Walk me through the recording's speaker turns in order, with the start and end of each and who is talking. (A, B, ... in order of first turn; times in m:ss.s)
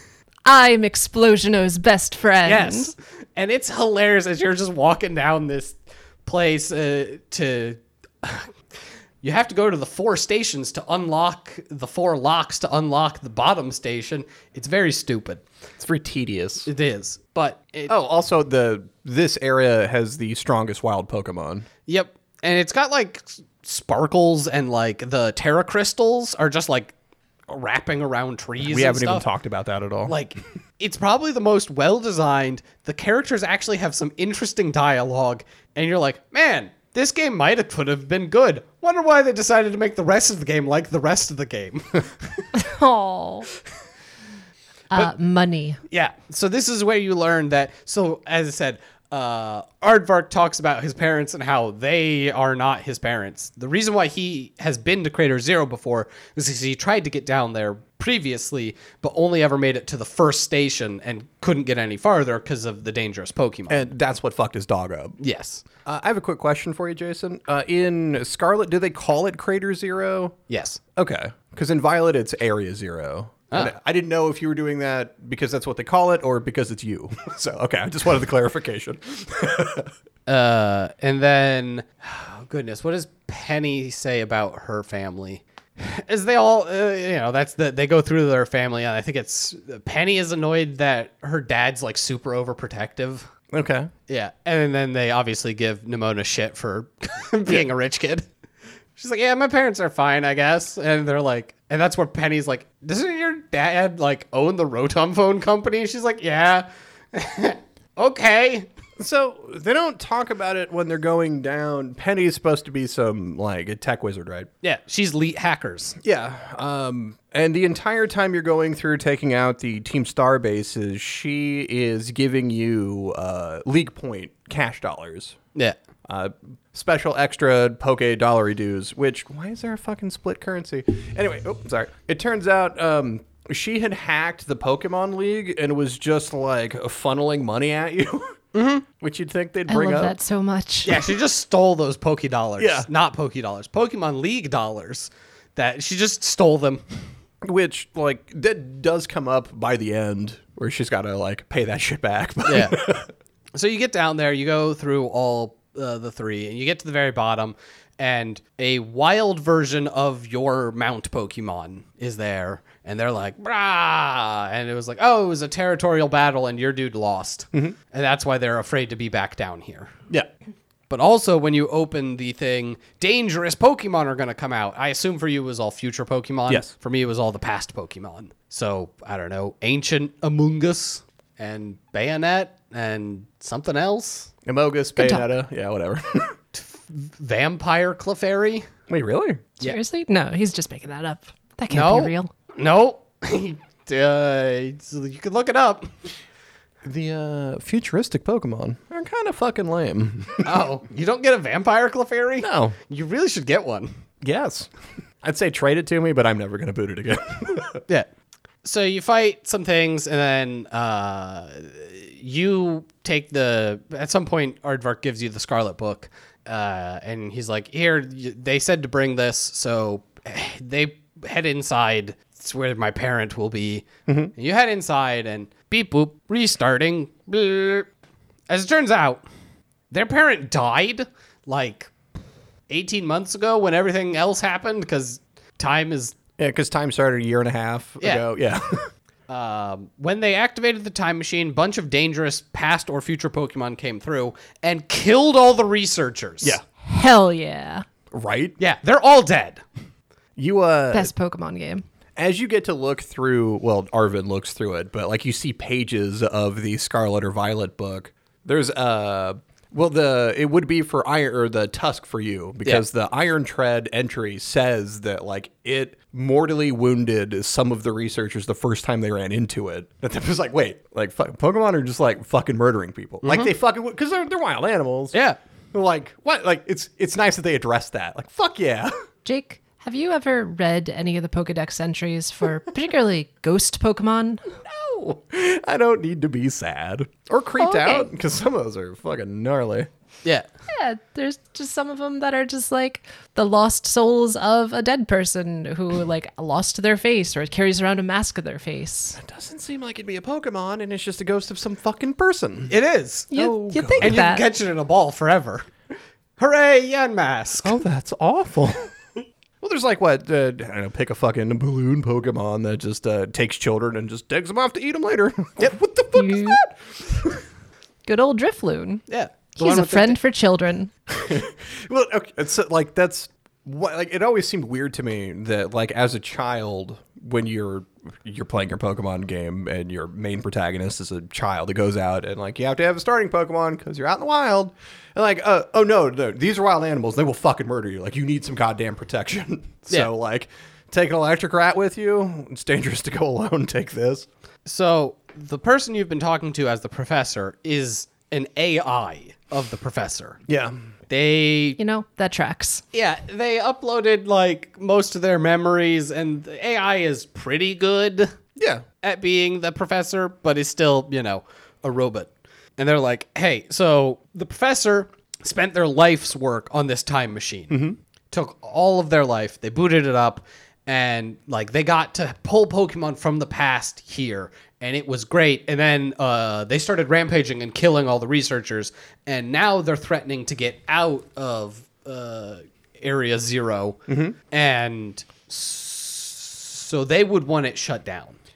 0:00.5-0:02.9 A
0:02.4-0:08.5 B
0:09.2-0:15.4 B
0:15.8-0:16.7 C
0:16.7-0:17.9 B
0:17.9-0:21.7 C
0:21.9-0:26.9 B
0:27.5-0:29.2 B
0:28.6-0:30.2 C
0:30.1-0:42.5 B
0:42.6-0:43.5 A
0:44.9-0:45.8 A
0:45.9-1:03.9 B
1:03.7-1:05.2 C
1:05.2-1:05.6 B
1:05.8-1:10.4 C
1:10.5-1:10.8 B
1:11.0-1:19.9 C
1:20.3-1:33.3 B
1:33.5-1:33.9 C
1:34.1-1:38.3 B
1:39.0-1:48.7 B
1:49.0-1:54.5 C
1:54.6-1:56.0 B
1:56.0-2:05.4 C
2:06.1-2:18.4 C
2:18.5-2:18.8 B
2:19.0-2:20.2 C
2:19.7-2:21.1 A
2:20.8-2:27.0 B
2:22.6-2:22.9 C
2:27.4-2:33.1 C
2:32.4-2:32.8 B
2:33.5-2:49.9 B
2:50.9-3:04.3 B
3:04.5-3:06.4 C
3:05.0-3:05.3 A
3:06.5-3:08.7 B
3:08.9-3:09.5 C
3:09.6-3:12.3 A
3:11.7-3:16.0 B
3:16.8-3:20.5 C
3:20.4-3:23.9 B
3:22.4-3:22.8 C
3:24.2-3:24.7 C
3:25.2-3:27.8 C
3:28.6-3:47.9 B
3:44.1-3:44.3 C
3:48.5-3:49.2 B
3:49.9-3:51.9 B
3:52.7-3:56.2 B
3:56.4-3:58.9 C
3:59.3-4:06.6 B
4:06.8-4:07.8 A
4:08.1-4:08.6 C
4:08.6-4:09.6 B
4:10.4-4:11.1 C
4:10.9-4:11.8 A
4:12.2-4:35.2 C
4:33.2-4:33.5 B
4:35.7-4:38.9 C
4:39.2-4:44.5 A
4:44.6-4:49.9 C
4:47.6-4:48.1 A
4:50.7-4:59.2 A
4:59.2-5:02.7 C
5:02.7-5:03.3 B
5:03.3-5:04.4 A
5:03.3-5:04.2 C
5:04.0-5:05.7 B
5:06.4-5:07.8 B
5:07.6-5:08.9 C
5:09.6-5:17.4 C
5:16.2-5:16.6 A
5:18.1-5:19.0 A
5:19.1-5:20.2 B
5:19.6-5:20.9 A
5:21.2-5:44.3 C
5:44.7-5:50.4 B
5:50.5-5:50.8 C
5:51.1-5:51.8 B
5:51.8-5:52.8 A
5:52.9-5:58.3 B
5:58.6-5:58.8 C
5:59.0-6:07.8 B
6:07.7-6:08.0 C
6:08.3-6:28.4 B
6:24.1-6:24.4 C